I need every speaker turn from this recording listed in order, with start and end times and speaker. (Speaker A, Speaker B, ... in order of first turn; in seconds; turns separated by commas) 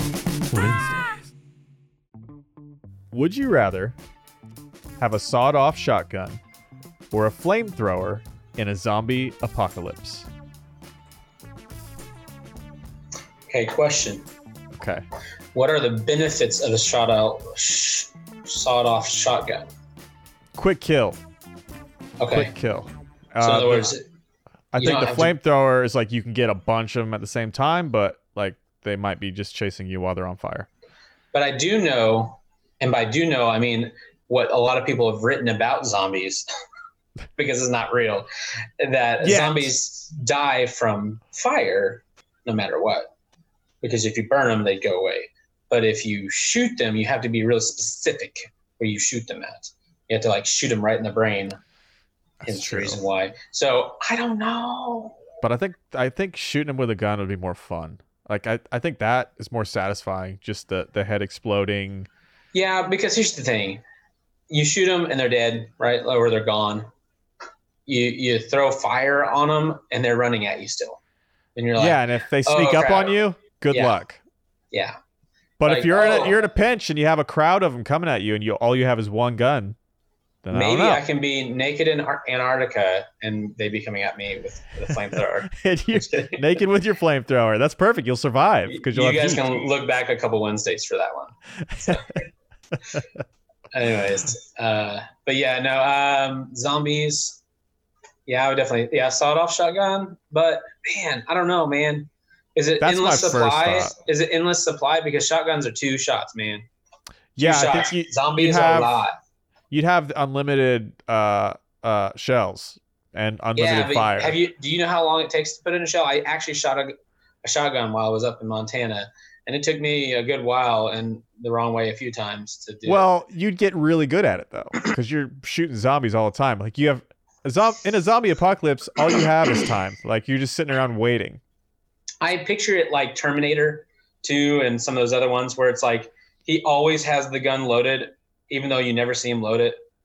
Speaker A: 0.5-1.3, Speaker A: 3.1-4.0, Speaker A: 5.0-6.4, Speaker A: 7.1-10.3, Speaker B: 13.5-14.2, Speaker A: 14.7-15.0, Speaker B: 15.5-19.7, Speaker A: 20.6-21.2, Speaker B: 22.2-22.5, Speaker A: 22.3-23.9, Speaker B: 23.4-24.0, Speaker A: 24.7-30.7, Speaker B: 24.8-25.3, Speaker B: 31.3-36.4, Speaker B: 37.4-38.3, Speaker B: 38.8-43.1, Speaker A: 39.2-39.7, Speaker B: 43.8-51.6, Speaker A: 52.4-53.0, Speaker B: 52.5-55.2, Speaker A: 55.4-62.1, Speaker B: 62.5-63.8, Speaker B: 64.5-66.9, Speaker B: 67.8-71.0, Speaker B: 71.5-73.2, Speaker A: 71.8-74.2, Speaker B: 73.7-74.0, Speaker A: 75.6-79.8, Speaker B: 75.6-76.4, Speaker A: 80.4-81.0, Speaker B: 80.5-86.4, Speaker A: 85.5-89.5, Speaker B: 88.7-92.2, Speaker A: 91.7-92.0, Speaker B: 93.7-97.4, Speaker B: 98.2-106.7, Speaker A: 102.8-103.9, Speaker A: 107.3-108.9, Speaker B: 107.4-109.1, Speaker A: 109.7-114.3, Speaker B: 113.5-116.9, Speaker B: 117.4-123.0, Speaker A: 122.8-131.4, Speaker B: 132.2-139.8